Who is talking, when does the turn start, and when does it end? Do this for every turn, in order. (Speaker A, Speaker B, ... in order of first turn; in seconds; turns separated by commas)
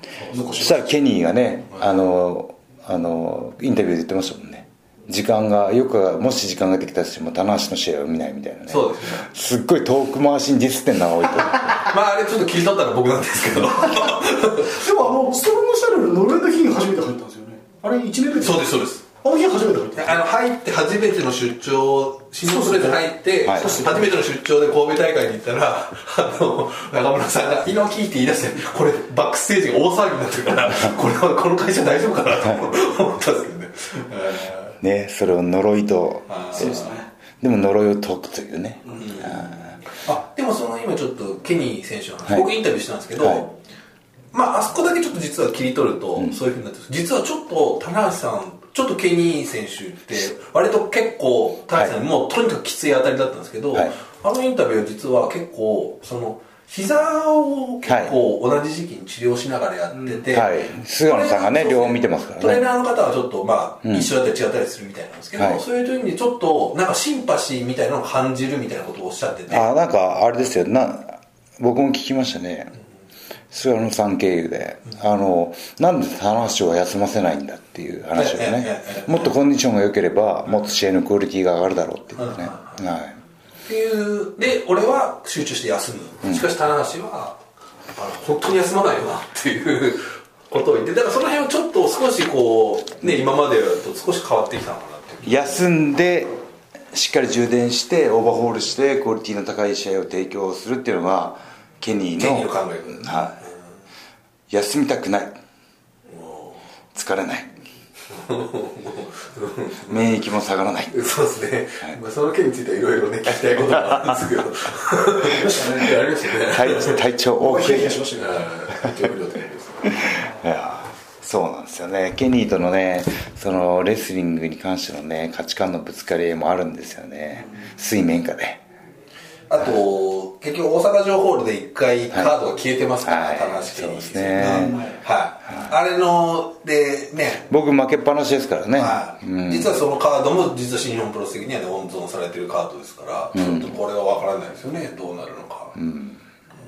Speaker A: 0.2-0.6, Speaker B: 0.3-0.9, Speaker C: 0.6-11.8, Speaker A: 8.7-9.3, Speaker A: 11.8-14.8, Speaker B: 14.6-20.2, Speaker A: 18.4-19.1, Speaker A: 20.0-34.8, Speaker B: 22.4-24.2, Speaker C: 23.4-23.8, Speaker C: 34.8-36.9, Speaker A: 36.3-37.0, Speaker B: 36.5-37.1, Speaker C: 37.4-39.8, Speaker A: 39.0-39.5, Speaker A: 40.0-43.6, Speaker A: 44.3-69.7, Speaker C: 57.8-58.2, Speaker C: 60.3-62.6, Speaker C: 63.8-64.1, Speaker C: 65.4-65.6, Speaker C: 69.5-72.7, Speaker C: 73.5-83.2, Speaker A: 78.2-79.3, Speaker A: 82.2-82.8, Speaker A: 83.7-87.4, Speaker A: 88.0-95.6, Speaker C: 95.2-96.4, Speaker C: 96.9-103.4, Speaker A: 102.2-103.5, Speaker C: 104.5-105.3, Speaker A: 106.1-106.6, Speaker C: 107.0-107.5, Speaker A: 108.1-110.1, Speaker C: 109.9-111.0, Speaker A: 110.9-117.0, Speaker C: 113.6-114.2, Speaker B: 115.2-116.1, Speaker C: 116.4-118.0, Speaker B: 117.4-118.4, Speaker A: 118.2-120.0, Speaker C: 120.1-128.6, Speaker A: 129.5-137.5, Speaker C: 133.0-134.8, Speaker B: 134.3-135.0, Speaker C: 137.5-139.8, Speaker A: 138.7-145.8, Speaker C: 143.3-143.7, Speaker C: 145.8-146.2